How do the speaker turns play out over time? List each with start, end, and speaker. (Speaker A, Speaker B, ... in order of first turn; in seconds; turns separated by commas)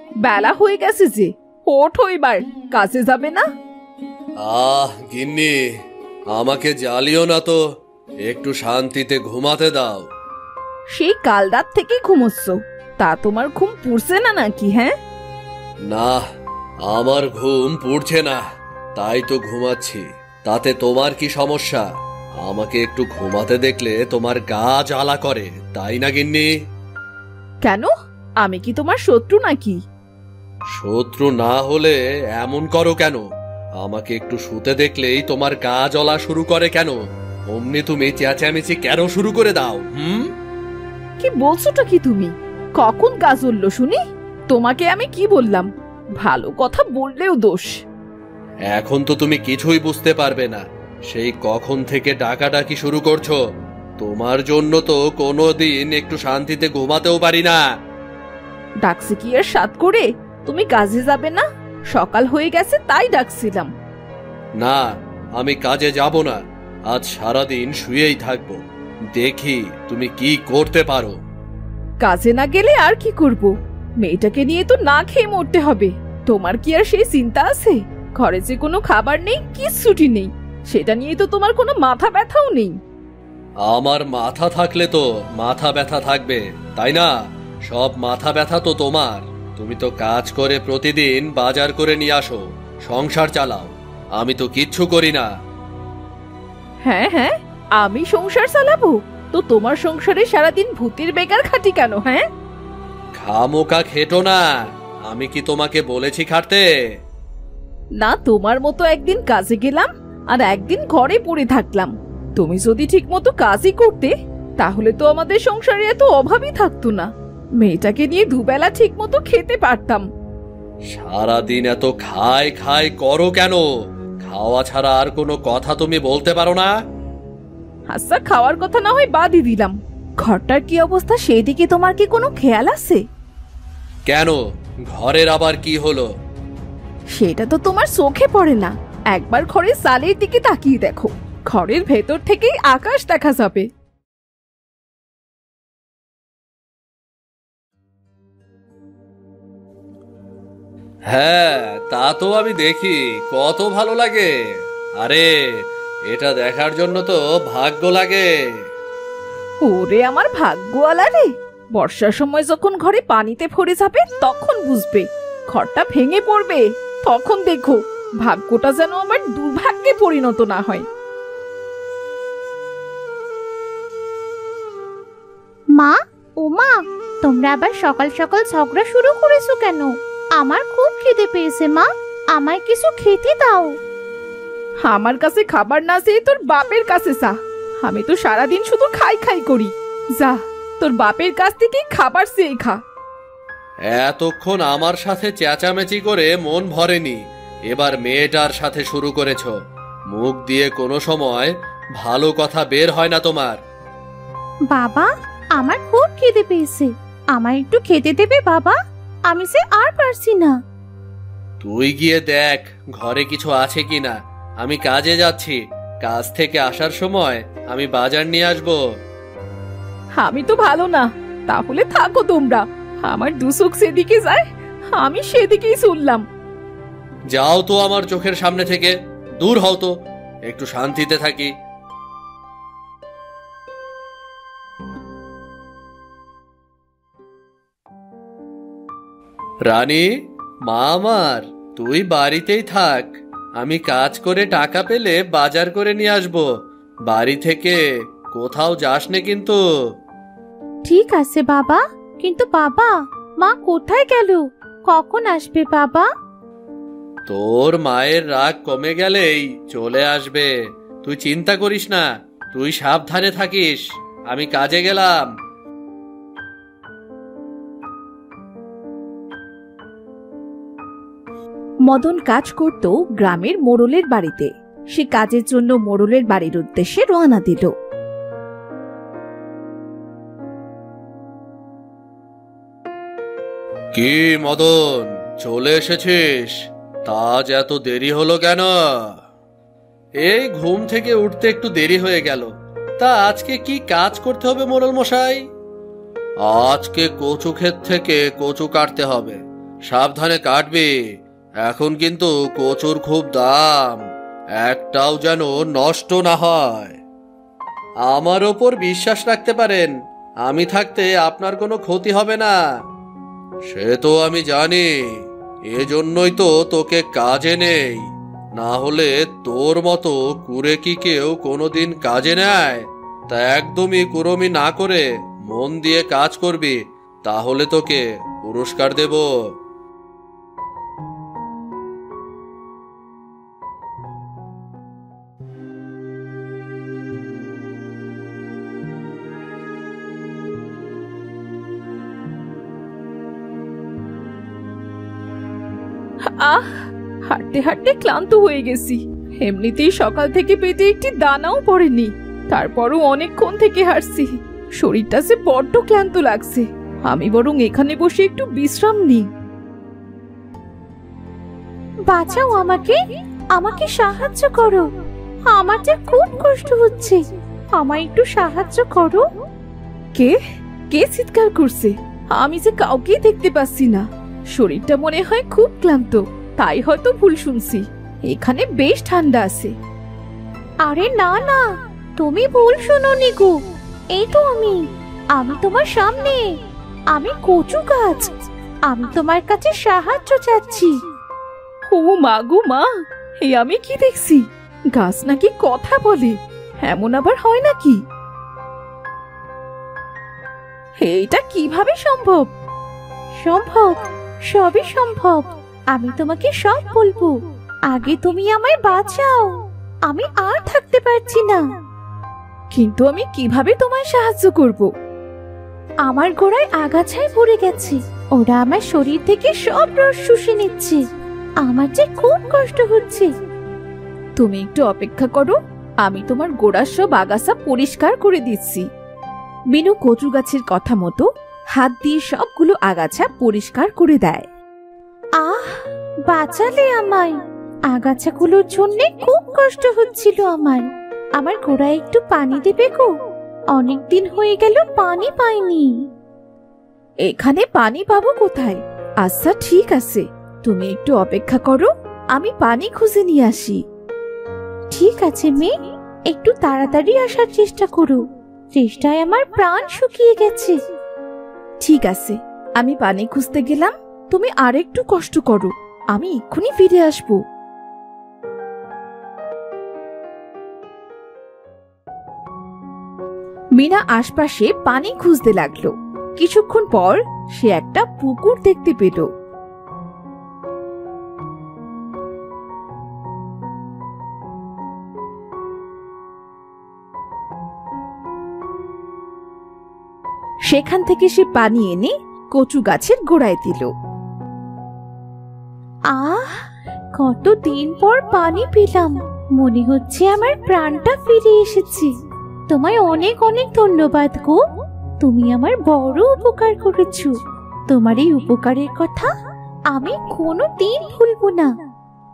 Speaker A: 0.2-3.4, Speaker B: 4.4-5.6, Speaker B: 6.3-7.6, Speaker B: 8.2-10.1, Speaker A: 10.9-14.9, Speaker B: 15.8-16.2, Speaker B: 16.8-18.4, Speaker B: 18.9-21.9, Speaker B: 22.4-26.5, Speaker A: 27.6-27.9, Speaker A: 28.4-29.8, Speaker B: 30.7-33.2, Speaker B: 33.8-37.0, Speaker B: 37.5-40.3, Speaker A: 41.2-45.7, Speaker A: 46.2-47.7, Speaker B: 48.7-53.4, Speaker B: 54.0-57.7, Speaker A: 58.8-63.7, Speaker B: 64.6-68.6, Speaker B: 69.1-71.2, Speaker A: 72.0-82.8, Speaker B: 83.6-87.1, Speaker B: 87.6-95.3, Speaker A: 96.8-102.2, Speaker B: 103.2-106.7, Speaker A: 108.0-117.1, Speaker A: 117.6-120.0, Speaker B: 120.9-123.6, Speaker B: 124.2-126.7, Speaker A: 127.9-133.0, Speaker B: 134.1-136.1, Speaker A: 137.1-143.7, Speaker B: 151.1-154.3, Speaker B: 155.0-158.3, Speaker A: 159.6-170.8, Speaker C: 175.8-183.7, Speaker A: 184.8-192.8, Speaker B: 193.9-199.5, Speaker B: 200.1-203.6, Speaker C: 204.7-205.1, Speaker C: 205.6-208.8, Speaker C: 209.3-210.5, Speaker B: 211.6-218.8, Speaker A: 220.2-226.2, Speaker B: 227.3-229.9, Speaker B: 230.4-231.5, Speaker B: 239.7-240.1, Speaker B: 240.7-246.5, Speaker B: 247.1-249.6, Speaker C: 250.8-256.0, Speaker B: 257.2-260.5, Speaker B: 261.0-265.2, Speaker A: 271.9-277.7, Speaker B: 283.9-289.1, Speaker B: 290.2-295.4, Speaker B: 296.4-300.9, Speaker B: 301.6-304.0, Speaker B: 304.6-307.0, Speaker B: 308.0-309.9, Speaker B: 310.4-312.5, Speaker B: 313.7-329.5, Speaker A: 346.4-359.3, Speaker C: 362.1-362.9, Speaker C: 363.6-364.8, Speaker C: 365.6-367.2, Speaker C: 367.8-369.2, Speaker A: 370.9-374.0, Speaker A: 374.6-379.7, Speaker C: 380.8-381.6, Speaker C: 382.2-383.5, Speaker C: 384.1-384.8, Speaker C: 385.3-386.4, Speaker C: 387.1-388.3, Speaker C: 388.9-390.9, Speaker A: 391.9-392.8, Speaker A: 393.4-398.0, Speaker A: 401.0-402.5, Speaker C: 403.4-403.9, Speaker C: 404.5-407.3, Speaker C: 407.9-409.5, Speaker C: 410.1-411.6, Speaker A: 412.7-414.9, Speaker C: 416.1-421.0, Speaker C: 421.6-423.3, Speaker A: 424.4-428.8, Speaker A: 429.7-434.4, Speaker C: 435.4-435.7, Speaker C: 436.3-437.4, Speaker C: 437.9-440.8, Speaker C: 441.4-443.1, Speaker C: 443.7-445.9, Speaker A: 447.2-453.8, Speaker C: 454.9-455.7, Speaker C: 456.3-458.2, Speaker C: 458.8-460.7, Speaker A: 461.8-467.4, Speaker A: 473.8-479.3, Speaker A: 490.7-493.9, Speaker C: 496.1-496.5, Speaker C: 497.2-502.1, Speaker C: 502.7-504.5, Speaker C: 505.2-507.3, Speaker C: 507.9-509.3, Speaker C: 509.9-511.7